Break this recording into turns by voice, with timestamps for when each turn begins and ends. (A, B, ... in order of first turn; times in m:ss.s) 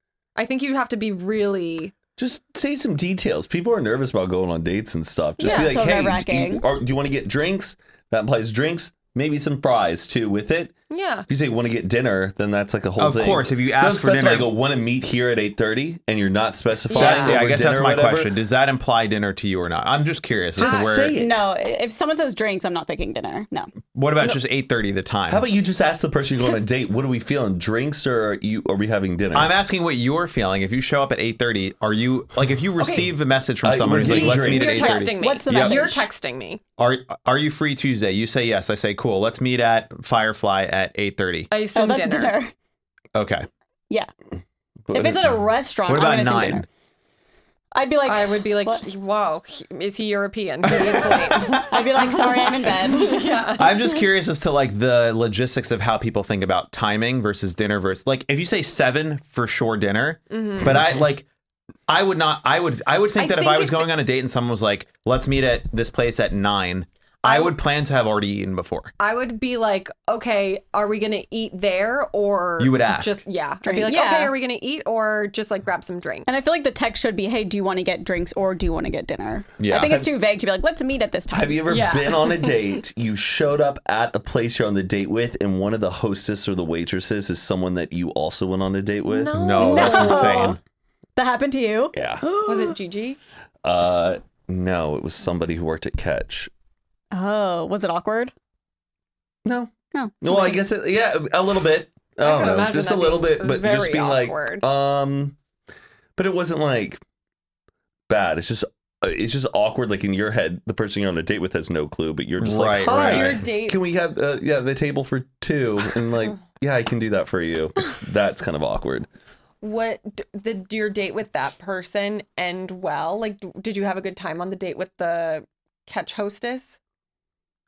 0:00.4-0:01.9 A
0:02.2-0:10.7 B
0:05.4-0:05.8 A
0:05.4-0:06.6 C
0:10.9-0:11.3 A
0:11.3-0:18.3 B
0:13.0-0:14.5 D
0:16.9-0:17.4 A
0:16.9-0:21.2 D
0:20.6-0:21.4 B
0:20.6-0:20.9 A
0:21.1-0:23.7 C
0:23.9-0:25.5 D
0:25.3-0:29.5 B
0:29.3-0:35.9 D
0:32.8-0:33.1 A
0:33.6-0:34.8 B
0:33.9-0:36.6 A
0:34.5-0:36.0 C
0:36.8-0:41.5 D
0:41.5-0:42.4 A
0:41.7-0:42.5 C
0:43.1-0:43.5 D
0:44.9-0:45.3 B
0:44.9-0:46.6 C
0:45.9-0:46.6 D
0:47.7-0:48.8 C
0:48.0-0:53.8 A
0:50.7-0:51.7 D
0:51.6-0:53.2 C
0:53.6-1:01.2 D
1:00.3-1:00.9 A
1:01.9-1:08.9 D
1:03.2-1:03.9 A
1:07.2-1:07.6 A
1:09.0-1:16.5 A
1:12.6-1:13.2 D
1:13.6-1:14.3 C
1:16.3-1:21.6 C
1:19.6-1:20.0 D
1:19.8-1:20.1 B
1:21.3-1:29.7 B
1:21.6-1:22.8 A
1:29.1-1:30.6 A
1:29.3-1:30.6 D
1:29.6-1:30.6 C
1:31.2-1:32.8 C
1:31.9-1:32.2 B
1:32.4-1:33.2 A
1:33.6-1:36.5 B
1:37.1-1:38.3 C
1:39.4-1:45.4 B
1:39.9-1:40.6 C
1:42.2-1:44.6 A
1:46.2-1:47.0 B
1:48.1-1:59.1 B
1:52.4-1:53.4 D
1:52.9-1:53.8 A
1:59.6-2:06.8 A